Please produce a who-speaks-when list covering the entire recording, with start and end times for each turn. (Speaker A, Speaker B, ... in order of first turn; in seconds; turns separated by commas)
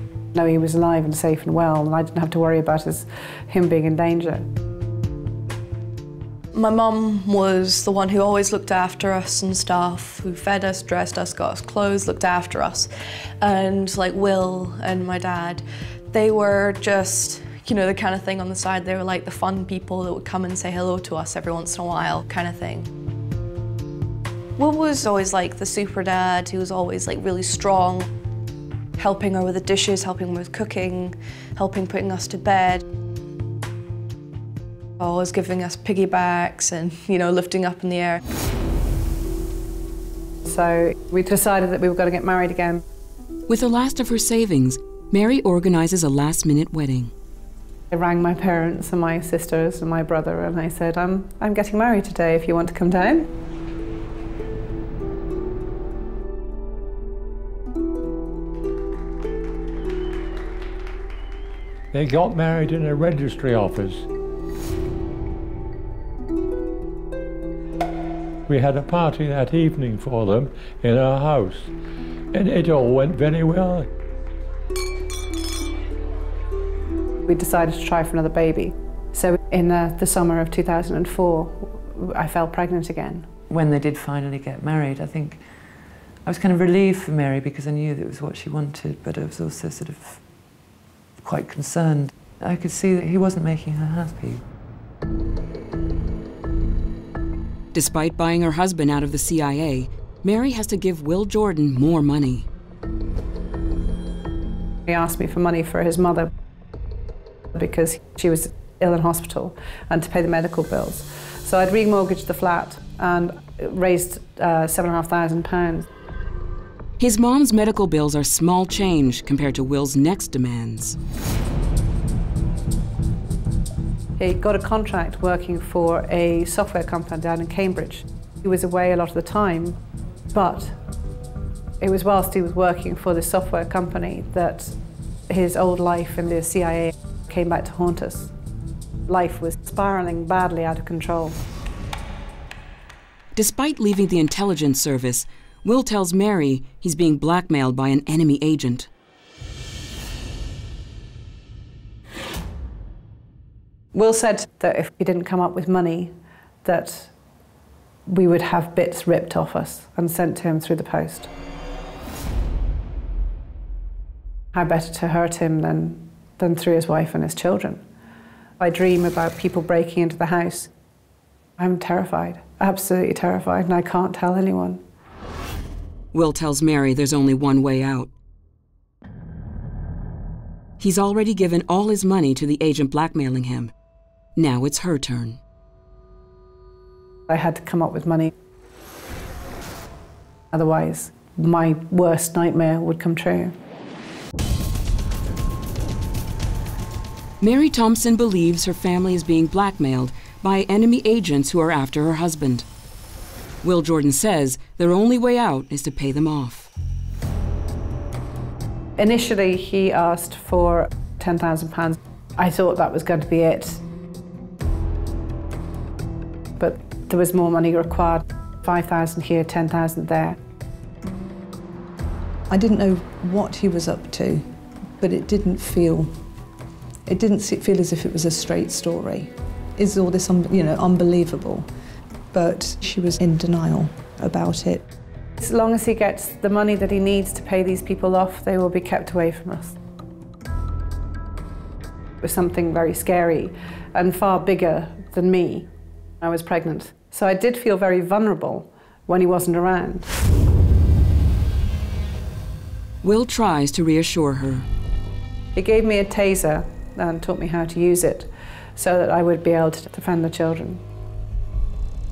Speaker A: 0.3-4.5, Speaker B: 6.5-22.9, Speaker B: 24.6-28.1, Speaker B: 29.0-32.8, Speaker B: 35.0-38.2, Speaker A: 40.5-42.8, Speaker C: 43.5-47.1, Speaker A: 47.9-53.3, Speaker D: 61.9-64.1, Speaker D: 68.5-71.7, Speaker D: 72.3-73.9, Speaker A: 77.2-83.3, Speaker E: 83.5-85.4, Speaker E: 86.2-90.2, Speaker E: 91.2-94.4, Speaker C: 97.7-102.5, Speaker A: 104.9-106.3, Speaker A: 107.5-115.9, Speaker C: 117.0-121.0, Speaker A: 124.2-129.8, Speaker A: 130.3-130.8, Speaker A: 131.8-134.7, Speaker A: 135.3-138.3, Speaker A: 139.1-141.4, Speaker C: 143.3-148.9, Speaker A: 153.9-157.1, Speaker A: 158.1-161.3, Speaker A: 164.5-167.8, Speaker A: 168.6-170.7, Speaker A: 171.6-174.8, Speaker C: 176.1-178.1, Speaker C: 180.8-183.7, Speaker C: 184.4-185.4, Speaker A: 187.3-188.3, Speaker A: 190.5-193.6, Speaker C: 197.4-202.7, Speaker C: 203.6-206.7, Speaker A: 209.0-213.8, Speaker A: 216.6-220.4, Speaker F: 222.5-224.5, Speaker F: 225.0-226.1, Speaker F: 227.1-231.7, Speaker F: 232.3-234.9, Speaker A: 235.4-239.8, Speaker A: 242.2-245.7, Speaker A: 246.2-250.1, Speaker C: 253.0-254.7, Speaker A: 255.6-260.8